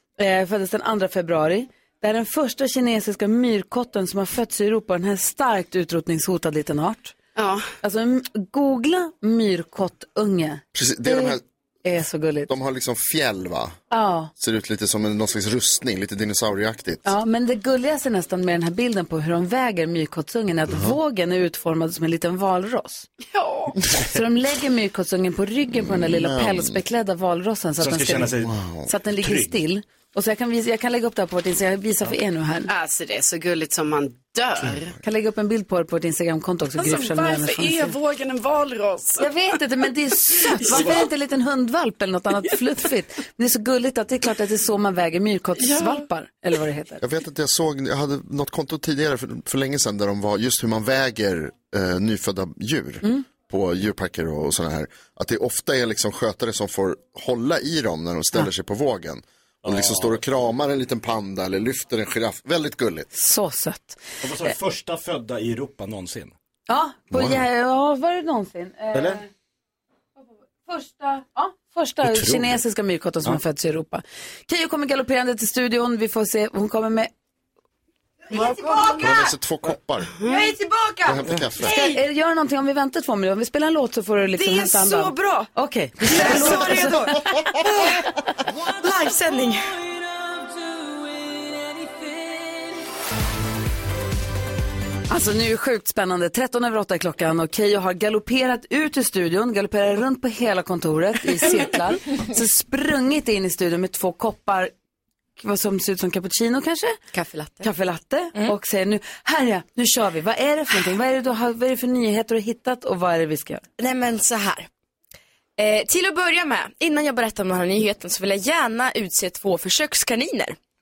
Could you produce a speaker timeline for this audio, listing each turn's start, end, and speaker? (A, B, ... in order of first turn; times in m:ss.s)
0:00.2-0:07.2 A
0:07.4-0:07.7 B
0:07.8-0:12.5 A
0:10.7-0:11.4 C
0:12.5-0:13.8 C
0:13.9-0:14.3 A
0:14.4-0:17.1 C
0:17.0-0:23.1 A
0:20.7-0:21.0 C
0:23.3-0:23.8 B
0:24.0-0:32.7 A
0:25.7-0:26.8 C
0:27.8-0:28.5 D
0:28.4-0:28.9 C
0:29.1-0:29.6 D
0:32.7-0:35.0 B
0:35.0-0:37.9 A
0:36.8-0:39.3 B
0:39.2-0:47.0 A
0:40.6-0:40.9 B
0:45.6-0:46.0 B
0:47.0-1:03.1 C
0:59.6-1:00.2 D
1:03.1-1:04.0 A
1:04.2-1:06.4 D
1:06.7-1:09.3 A
1:08.9-1:09.2 D
1:10.2-1:17.1 A
1:12.0-1:12.6 D
1:18.3-1:19.0 A
1:18.3-1:19.2 E
1:19.0-1:20.1 C
1:20.2-1:20.6 B
1:20.2-1:22.0 E
1:21.0-1:21.7 C
1:21.6-1:27.3 A
1:24.4-1:25.5 E
1:26.0-1:28.0 E
1:28.6-1:29.7 E
1:35.1-1:44.7 A
1:45.4-1:47.0 A
1:47.1-1:47.7 E
1:47.6-1:53.6 A
1:53.8-1:54.7 E
1:55.6-2:00.6 E